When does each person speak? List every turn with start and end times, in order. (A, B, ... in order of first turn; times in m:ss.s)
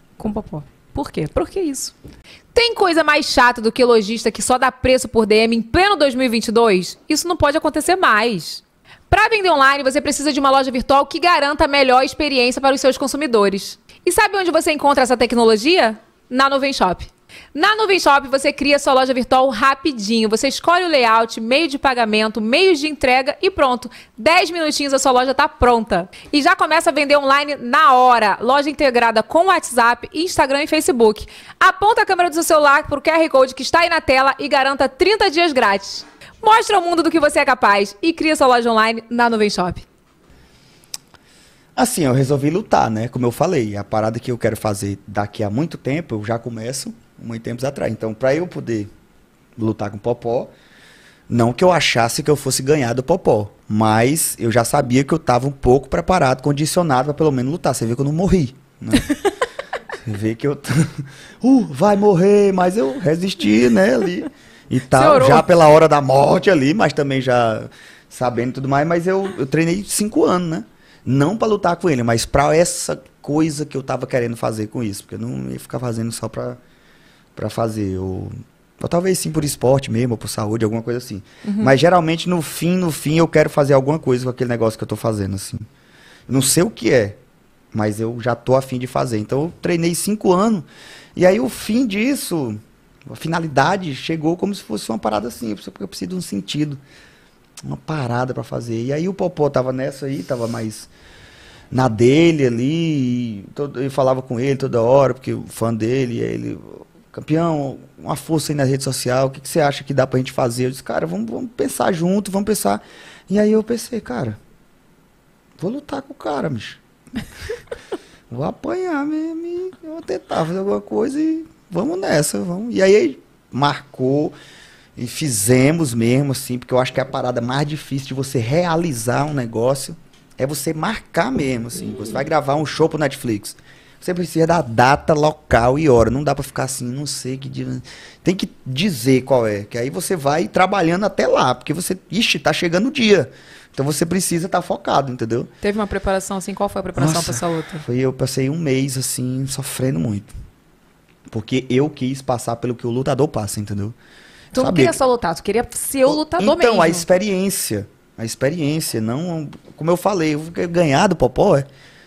0:00.2-0:01.9 A
0:02.5-0:39.8 A
0:41.8-0:48.9 B
0:49.6-0:50.5 B
0:51.3-0:59.2 B
0:59.9-1:16.6 B
1:04.9-1:05.4 A
1:17.3-1:25.6 B
1:21.4-1:21.7 A
1:26.3-1:27.2 B
1:27.7-1:36.8 B
1:37.6-1:40.9 B
1:41.7-1:54.4 B
1:55.6-1:56.8 B
1:58.3-2:04.4 B
2:05.0-2:25.5 B
2:25.6-2:27.8 A
2:26.9-2:30.3 B
2:31.3-2:34.0 B
2:34.5-2:35.0 B
2:34.5-2:37.1 A
2:36.0-2:41.7 B